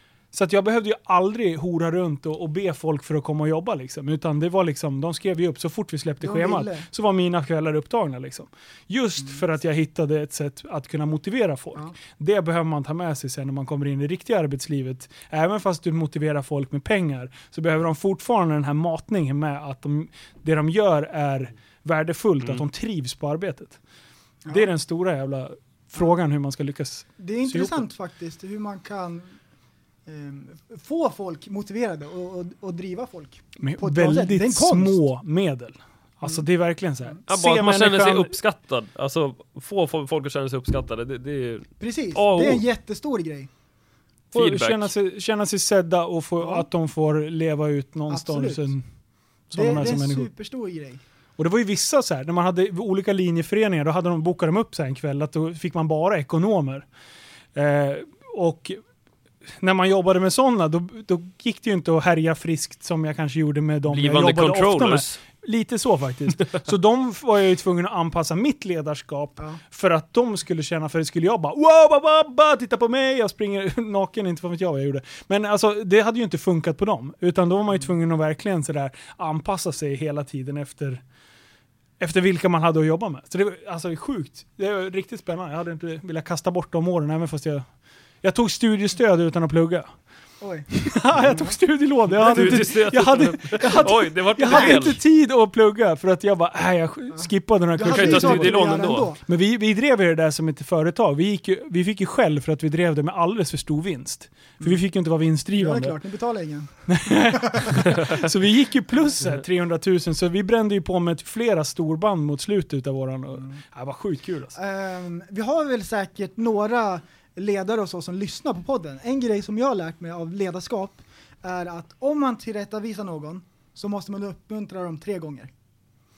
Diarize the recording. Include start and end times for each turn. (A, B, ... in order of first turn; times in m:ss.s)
0:00.3-0:23.8 A
0:06.2-0:06.8 B
0:24.5-0:27.8 A
0:27.2-0:29.4 B
0:30.0-0:35.0 B
0:33.6-0:38.3 A
0:37.3-0:42.6 C
0:41.8-0:43.5 B
0:44.3-0:48.8 A
0:44.3-0:44.9 C
0:46.4-0:46.6 B
0:48.1-0:48.7 B
0:49.5-0:50.3 A
0:49.5-0:51.0 B
0:51.4-0:56.9 A
0:57.5-0:58.8 A
0:59.6-1:21.0 A
1:03.9-1:05.2 C
1:22.0-1:27.6 A
1:28.2-1:29.9 A
1:30.4-1:31.5 B
1:30.7-1:46.0 A
1:32.2-1:32.7 B
1:32.2-1:35.0 C
1:34.5-1:34.9 B
1:37.1-1:39.2 B
1:37.9-1:39.1 C
1:45.6-1:46.7 B
1:46.9-1:54.5 A
1:47.3-1:47.8 B
1:54.5-2:05.5 B